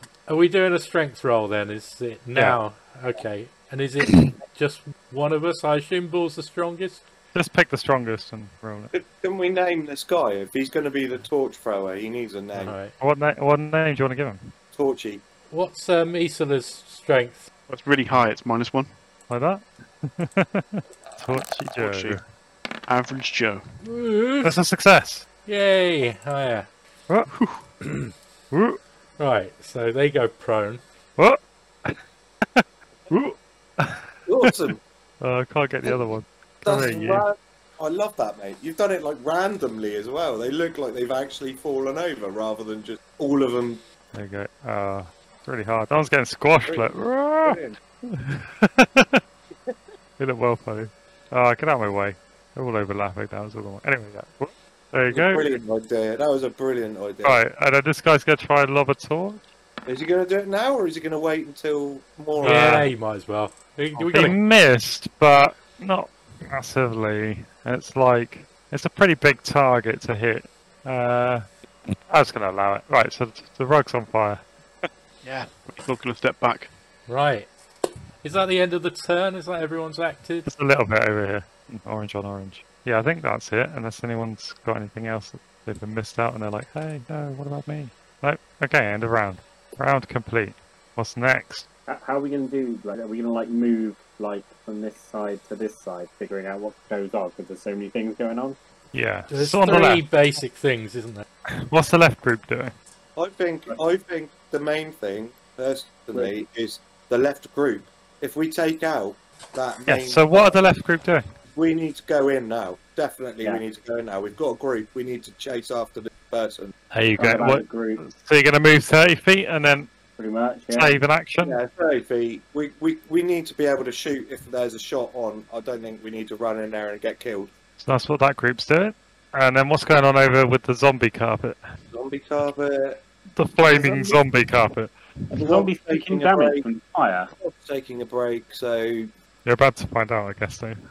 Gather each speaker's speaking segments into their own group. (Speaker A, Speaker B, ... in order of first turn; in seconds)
Speaker A: 0.3-7.0, 12.5-12.9, 15.5-17.5, 23.8-24.6, 25.4-26.7, 27.8-28.1, 29.2-30.8, 62.4-64.4, 77.1-77.5, 78.2-80.5, 99.3-101.2
Speaker B: 7.3-8.9, 13.0-14.5, 19.3-22.2, 24.4-25.2, 28.5-28.8, 31.2-37.2, 44.1-49.2, 50.2-55.5, 57.2-59.4, 62.4-62.9, 64.0-71.5, 72.1-74.9, 80.4-91.7, 98.9-100.1, 101.7-102.7, 109.8-111.2, 116.9-119.9, 120.7-121.6, 127.8-131.6, 133.3-134.9, 139.4-140.8
Speaker C: 8.9-12.8, 14.7-15.2, 34.3-34.8, 36.6-43.8, 46.7-47.8, 55.1-57.4, 59.9-62.9, 103.2-110.6, 111.5-116.7, 121.4-127.5, 131.9-133.0, 133.6-134.2, 135.3-136.6, 137.4-139.1
Speaker D: 17.7-18.9, 21.7-22.2, 22.9-23.6, 27.3-27.6, 75.2-76.7
Speaker E: 91.9-98.6, 117.2-118.0, 120.2-120.9, 135.4-137.3